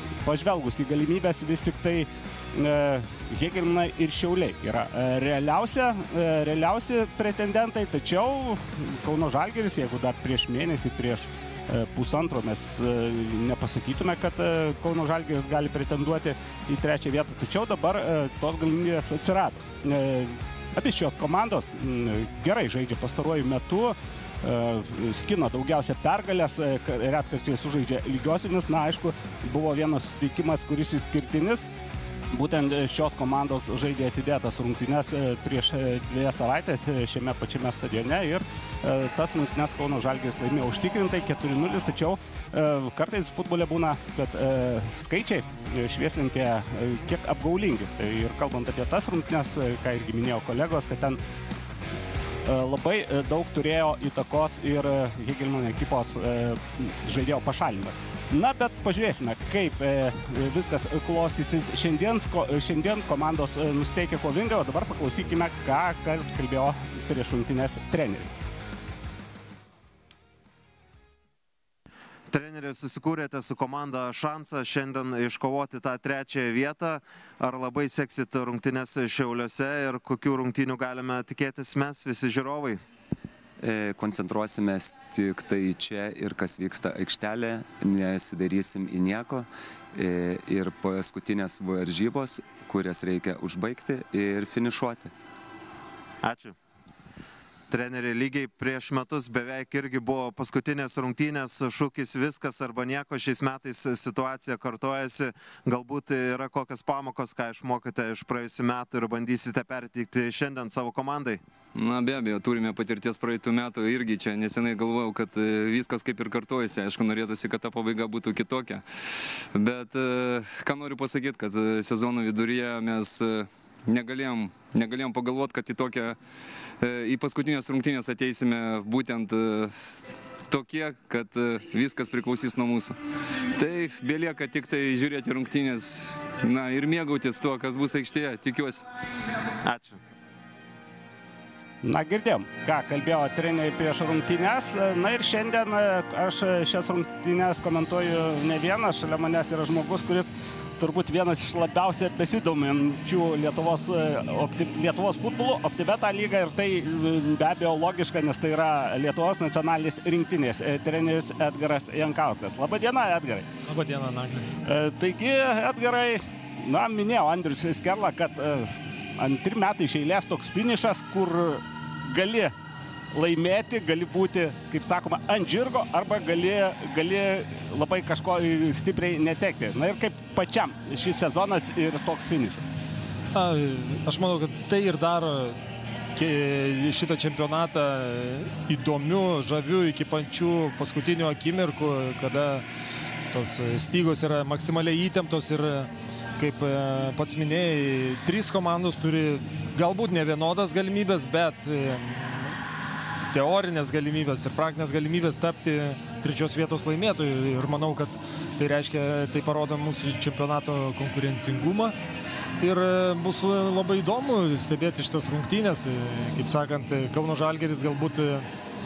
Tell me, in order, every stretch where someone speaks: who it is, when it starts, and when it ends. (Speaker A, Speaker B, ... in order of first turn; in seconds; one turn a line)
Speaker A: 0.2-31.7
Speaker A: 32.3-51.2
Speaker A: 52.4-68.3
Speaker B: 72.3-82.8
Speaker C: 83.6-95.1
Speaker B: 96.2-96.5
Speaker B: 97.7-111.4
Speaker D: 111.7-126.2
Speaker D: 126.7-132.9
Speaker D: 133.5-138.9
Speaker B: 139.6-140.0
Speaker A: 141.8-163.5
Speaker E: 163.6-164.5
Speaker A: 164.6-172.5
Speaker A: 173.1-182.7
Speaker E: 183.3-185.6
Speaker E: 186.1-192.6
Speaker E: 193.3-202.5
Speaker E: 203.3-211.9
Speaker E: 212.6-218.5